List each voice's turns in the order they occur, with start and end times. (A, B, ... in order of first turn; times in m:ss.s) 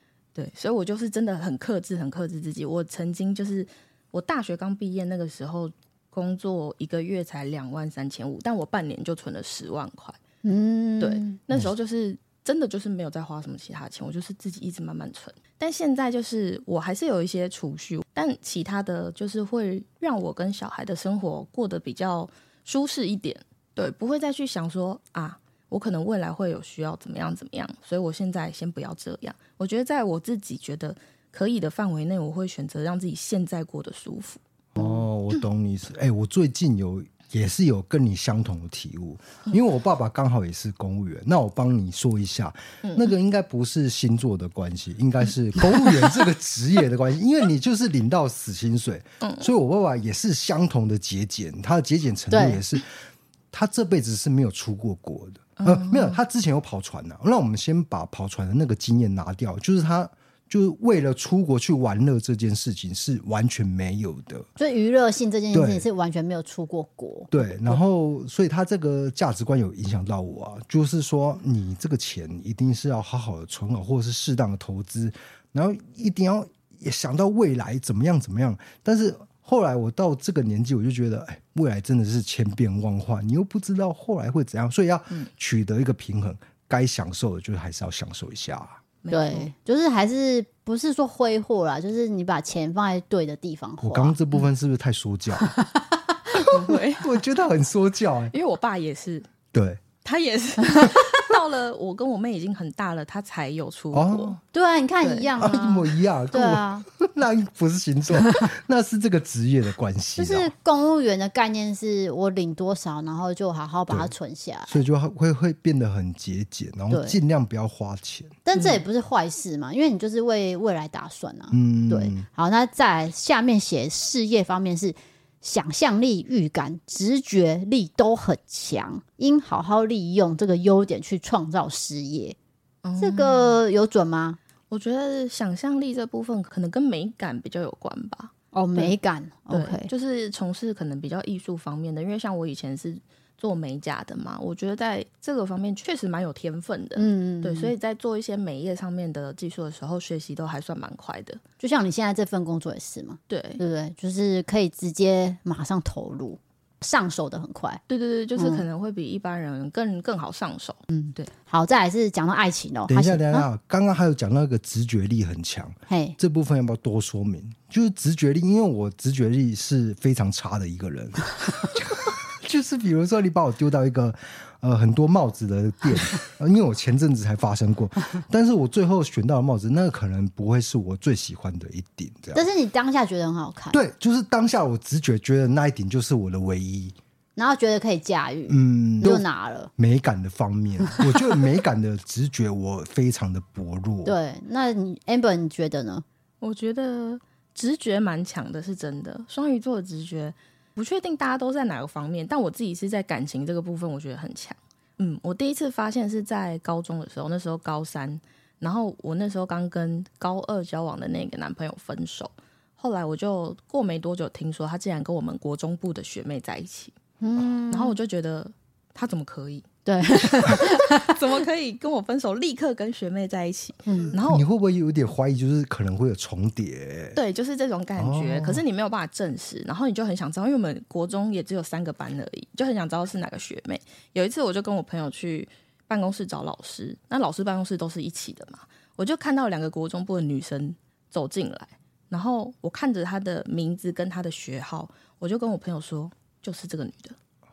0:00.4-0:10.2 A
0:10.4-0:11.4 B
0:11.0-0:34.4 A
0:34.8-0:52.9 C
0:42.8-0:43.1 A
0:49.2-0:49.5 A
0:52.3-0:52.6 B
0:53.5-1:04.5 C
0:55.6-0:56.2 A
1:04.6-1:07.8 B
1:05.5-1:05.9 C
1:07.3-1:28.8 C
1:29.0-1:29.5 A
1:29.1-1:34.2 B
1:33.8-1:35.6 C
1:35.4-1:35.9 B
1:36.4-1:37.2 A
1:37.0-1:38.3 C
1:38.3-1:39.3 A
1:39.5-1:39.8 C
1:40.0-1:44.4 A
1:43.9-1:44.4 C
1:44.5-1:46.8 B
1:45.0-1:45.3 A
1:45.4-1:50.5 C
1:50.2-1:54.8 B
1:54.7-1:58.4 C
1:56.9-1:57.2 B
1:58.4-2:12.4 B
2:01.5-2:02.3 C
2:12.8-2:13.6 A
2:13.0-2:14.4 B
2:14.7-2:18.9 A
2:18.5-2:19.9 B
2:19.5-2:31.4 A
2:27.0-2:27.7 B
2:31.6-2:37.8 B
2:33.3-2:33.6 A
2:37.9-2:41.3 A
2:38.4-2:38.6 B
2:40.9-2:43.5 B
2:42.9-3:02.4 C
2:45.9-2:46.2 B
3:02.3-3:03.8 B
3:03.7-3:07.0 C
3:07.4-3:09.7 B
3:08.5-3:09.3 C
3:09.8-3:14.2 C
3:14.0-3:16.0 B
3:16.4-3:37.0 A
3:37.2-3:38.0 B
3:37.7-3:39.7 A
3:39.8-3:41.2 B
3:40.4-3:44.4 A
3:43.9-3:44.1 B
3:44.2-3:47.2 C
3:47.2-4:07.2 A
3:48.0-3:48.6 C